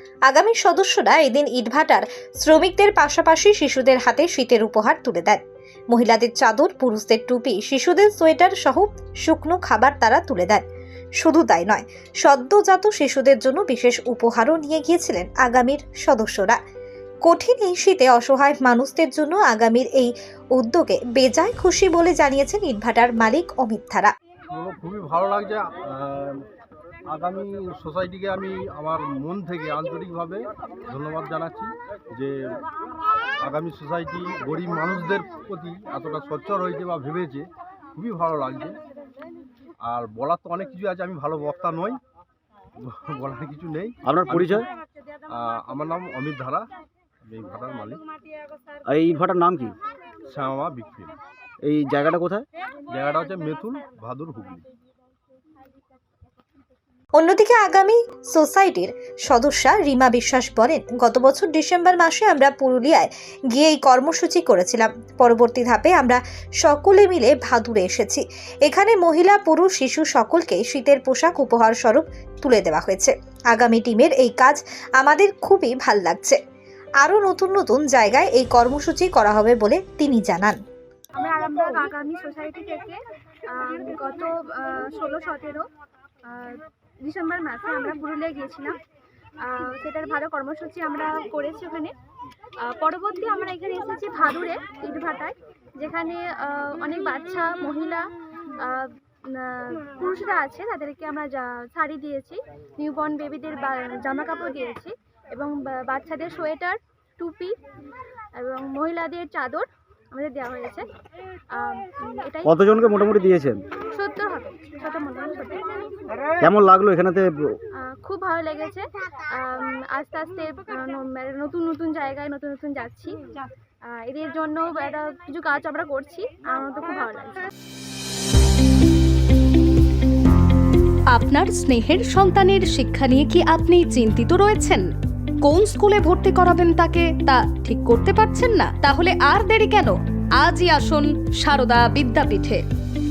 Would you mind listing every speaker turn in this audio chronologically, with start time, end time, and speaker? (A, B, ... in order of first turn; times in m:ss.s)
0:00.3-0:10.6 A
0:11.2-0:16.6 A
0:17.2-0:24.1 A
0:24.5-0:26.4 B
0:27.1-0:32.6 B
0:33.4-0:38.8 B
0:39.8-0:42.0 B
0:42.8-0:44.7 B
0:44.0-0:44.7 C
0:45.3-0:46.7 B
0:47.3-0:48.0 B
0:48.9-0:49.7 C
0:50.3-0:51.1 B
0:51.6-0:52.4 C
0:52.9-0:54.6 B
0:57.2-1:16.4 A
1:17.0-1:20.6 A
1:21.2-1:25.7 D
1:26.2-1:28.8 D
1:29.4-1:31.9 D
1:32.6-1:47.6 D
1:48.4-1:50.9 D
1:51.5-1:52.5 D
1:52.4-1:53.6 C
1:53.9-1:55.8 D
1:56.4-1:57.6 C
1:57.7-2:03.2 D
2:03.8-2:07.5 D
2:11.1-2:14.8 E
2:15.4-2:22.6 E